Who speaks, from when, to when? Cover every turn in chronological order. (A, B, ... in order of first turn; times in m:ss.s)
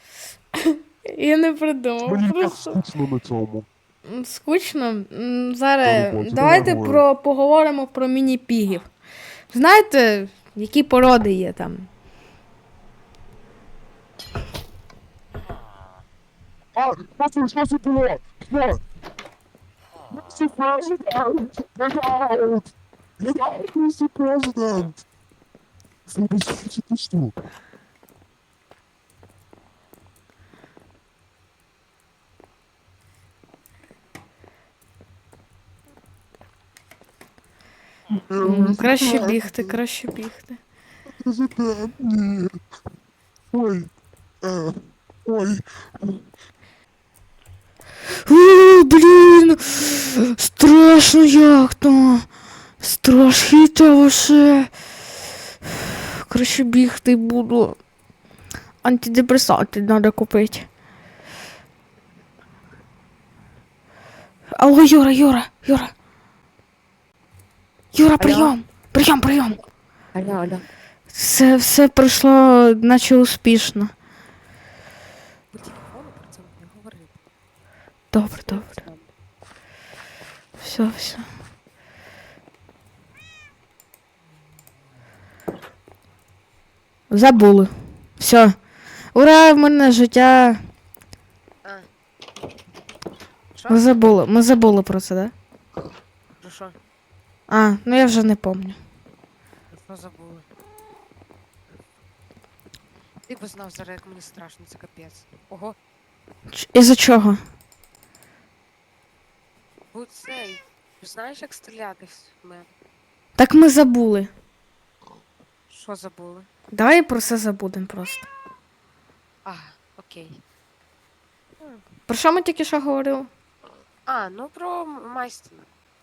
0:00.6-0:02.8 A
0:02.0-0:03.7 B
0:04.0-0:08.9 A
0:05.8-0:07.0 B
0:09.5-0:11.9 A
0:16.8-0:18.8 B
0:20.1-0:25.0 B
0:26.1-0:27.4 B
0:38.1-0:39.8 B
0:38.4-0:40.6 A
0:41.2-0:42.6 B
0:43.5-0:43.9 B
0:44.4-0:46.2 B
0:48.2-0:52.3 A
0:52.8-0:54.7 A
0:55.6-0:57.8 A
0:58.8-1:00.7 A
1:04.5-1:05.9 A
1:07.9-1:09.6 A
1:08.2-1:08.5 C
1:10.1-1:10.6 C
1:11.1-1:13.9 A
1:15.5-1:17.2 C
1:18.1-1:18.8 A
1:18.3-1:19.1 C
1:20.6-1:21.3 A
1:27.1-1:28.6 A
1:29.1-1:30.6 A
1:33.5-1:34.0 C
1:33.7-1:35.3 A
1:36.4-1:36.8 C
1:37.5-1:38.8 A
1:39.7-1:40.4 C
1:43.3-1:45.8 C
1:46.5-1:47.4 A
1:49.9-1:52.7 C
1:53.4-1:54.3 A
1:55.7-1:56.5 C
1:56.7-1:58.3 A
1:59.4-2:00.4 C
2:02.1-2:03.3 A
2:04.1-2:05.7 C